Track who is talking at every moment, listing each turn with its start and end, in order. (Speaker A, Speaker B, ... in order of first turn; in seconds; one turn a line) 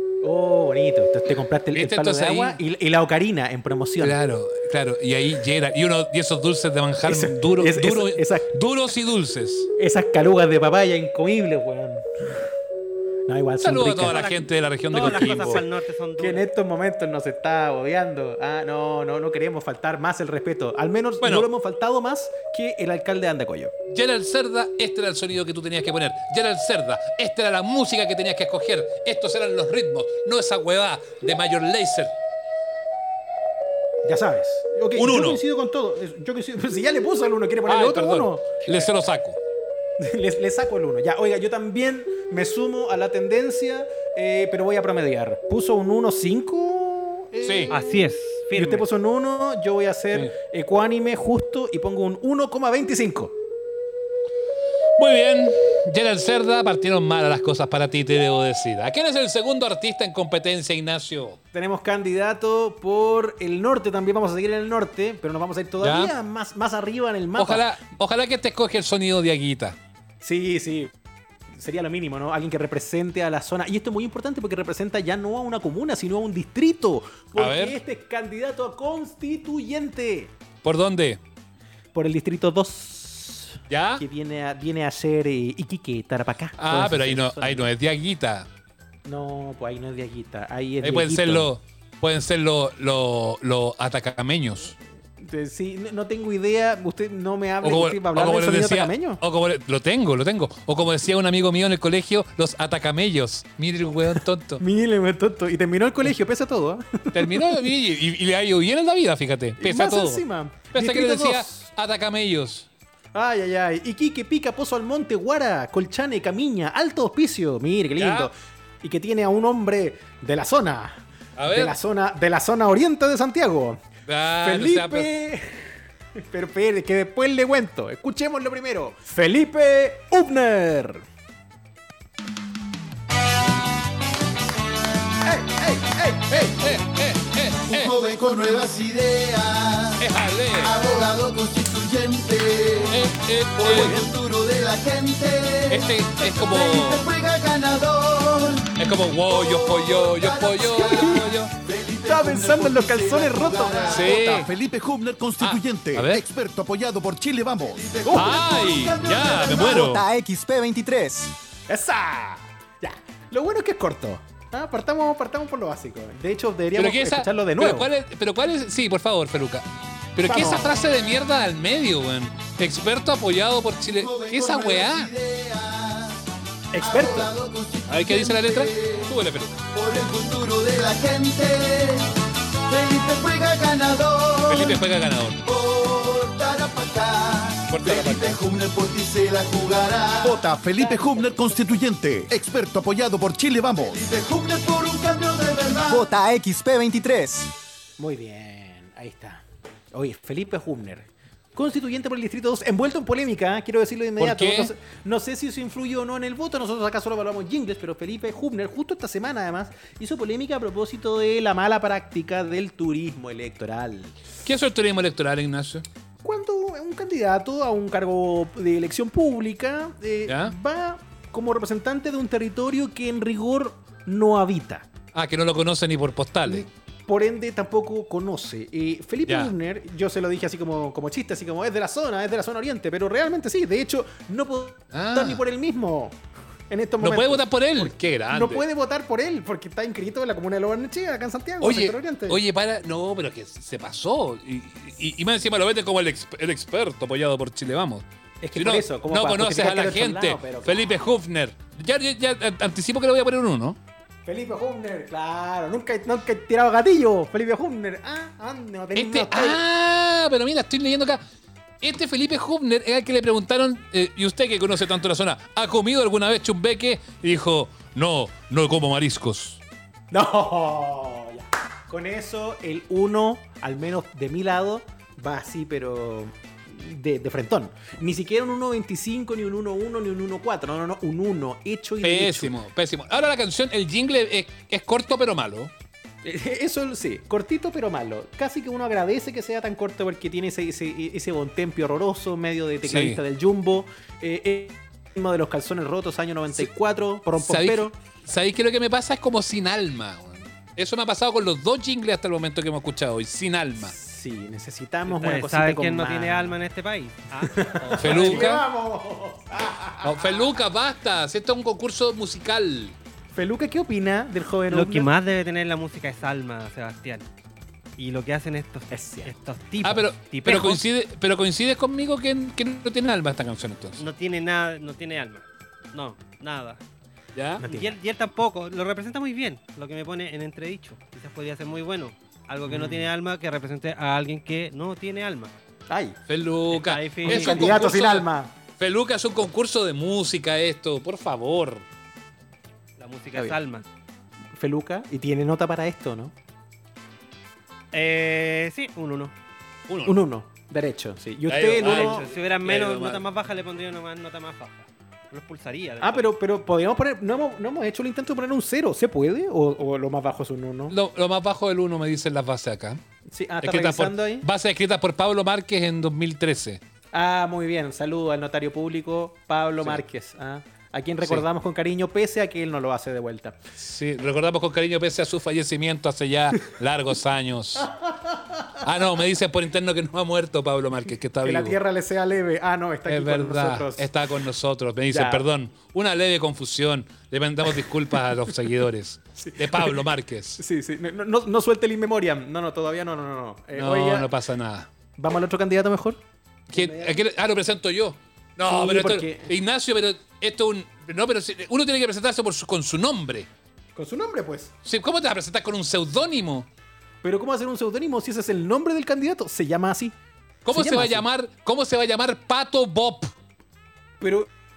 Speaker A: 0.2-4.2
Speaker B: 1.7-2.6
Speaker B: 4.0-9.7
Speaker A: 7.0-8.6
Speaker A: 9.8-12.1
Speaker A: 13.3-14.2
Speaker B: 13.6-15.7
Speaker C: 14.0-16.5
Speaker A: 15.0-15.5
Speaker A: 16.2-23.7
Speaker B: 21.2-21.5
Speaker B: 23.9-32.1
Speaker A: 34.0-38.9
Speaker B: 34.9-35.4
Speaker B: 37.6-39.4
Speaker A: 40.0-53.3
Speaker B: 47.4-47.7
Speaker C: 47.7-48.9
Speaker B: 55.0-61.4
Speaker A: 61.5-67.7
Speaker B: 65.8-66.1
Speaker B: 67.3-69.8
Speaker A: 70.2-70.9
Speaker A: 71.5-80.3
Speaker B: 77.3-77.8
Speaker B: 80.6-81.2
Speaker A: 81.9-87.7
Speaker B: 83.7-84.0
Speaker B: 86.6-88.5
Speaker A: 89.0-91.5
Speaker B: 90.8-94.7
Speaker A: 95.2-99.2
Speaker B: 97.6-104.6
Speaker A: 104.6-107.6
Speaker B: 107.1-112.7
Speaker A: 109.6-111.7
Speaker A: 113.1-123.8
Speaker B: 118.0-118.3
Speaker B: 121.3-121.8
Speaker B: 124.1-125.1
Speaker A: 124.4-131.0
Speaker A: 135.2-136.6
Speaker B: 136.5-137.9
Speaker D: 137.7-143.0
Speaker B: 140.0-140.8
Speaker B: 142.9-144.0
Speaker D: 143.6-154.3
Speaker B: 145.7-147.1
Speaker B: 148.8-151.5
Speaker A: 150.8-151.2
Speaker A: 152.1-154.5
Speaker B: 153.9-154.5
Speaker E: 154.2-158.0
Speaker B: 155.4-156.2
Speaker D: 157.6-159.9
Speaker B: 158.1-160.1
Speaker E: 159.8-161.3
Speaker A: 161.7-167.9
Speaker B: 166.7-175.1
Speaker A: 170.2-170.8
Speaker D: 173.9-176.2
Speaker A: 176.7-177.3
Speaker D: 176.8-179.1
Speaker B: 177.9-179.6
Speaker D: 179.7-182.1
Speaker D: 182.7-184.8
Speaker B: 184.5-185.4
Speaker D: 185.4-190.4
Speaker B: 187.7-188.4
Speaker E: 190.2-194.1
Speaker A: 190.7-191.7
Speaker D: 193.8-196.1
Speaker E: 195.9-197.5
Speaker A: 198.0-214.2
Speaker B: 204.2-204.7
Speaker B: 214.4-215.8
Speaker A: 216.2-224.9
Speaker B: 220.2-220.5
Speaker B: 225.1-226.7
Speaker A: 226.4-236.2
Speaker B: 229.2-229.5
Speaker B: 234.9-235.4
Speaker A: 236.7-242.4
Speaker B: 237.0-238.6
Speaker B: 241.6-253.8
Speaker A: 248.4-250.9
Speaker A: 254.2-259.6
Speaker B: 258.9-261.2
Speaker B: 261.8-269.6
Speaker A: 270.1-282.6
Speaker B: 282.0-285.7
Speaker A: 286.2-297.9
Speaker B: 292.8-293.2
Speaker B: 297.4-303.9
Speaker A: 303.8-306.6
Speaker C: 305.1-308.5
Speaker A: 307.5-310.5
Speaker B: 307.9-308.7
Speaker B: 310.0-312.9
Speaker A: 313.3-315.1
Speaker C: 314.7-317.3
Speaker C: 318.0-320.8
Speaker A: 318.9-319.3
Speaker B: 319.8-324.0
Speaker C: 324.0-326.8
Speaker B: 327.3-327.6
Speaker A: 327.6-328.0
Speaker C: 327.6-335.5
Speaker A: 332.7-333.1
Speaker A: 335.9-336.2
Speaker B: 336.3-341.8
Speaker C: 336.7-337.8
Speaker A: 337.2-338.5
Speaker C: 343.0-343.8
Speaker A: 344.6-346.3
Speaker C: 347.9-349.3
Speaker B: 349.9-350.2
Speaker A: 350.1-352.2
Speaker B: 351.5-353.2
Speaker C: 351.8-356.3
Speaker A: 356.0-360.9
Speaker B: 360.9-363.0
Speaker A: 363.3-364.4
Speaker B: 363.6-366.8
Speaker A: 367.1-373.6
Speaker B: 373.8-377.9
Speaker A: 378.0-378.8
Speaker B: 378.8-381.8
Speaker A: 381.4-384.1
Speaker B: 383.1-390.6
Speaker A: 385.1-385.4
Speaker A: 389.4-390.0
Speaker A: 390.6-394.3
Speaker B: 393.7-394.9
Speaker A: 395.2-396.2
Speaker B: 396.7-403.5
Speaker A: 396.7-397.2
Speaker A: 398.6-399.5
Speaker A: 403.9-404.7
Speaker B: 404.8-406.7
Speaker A: 407.2-410.1
Speaker B: 410.6-413.3
Speaker A: 410.7-411.2
Speaker A: 414.2-414.5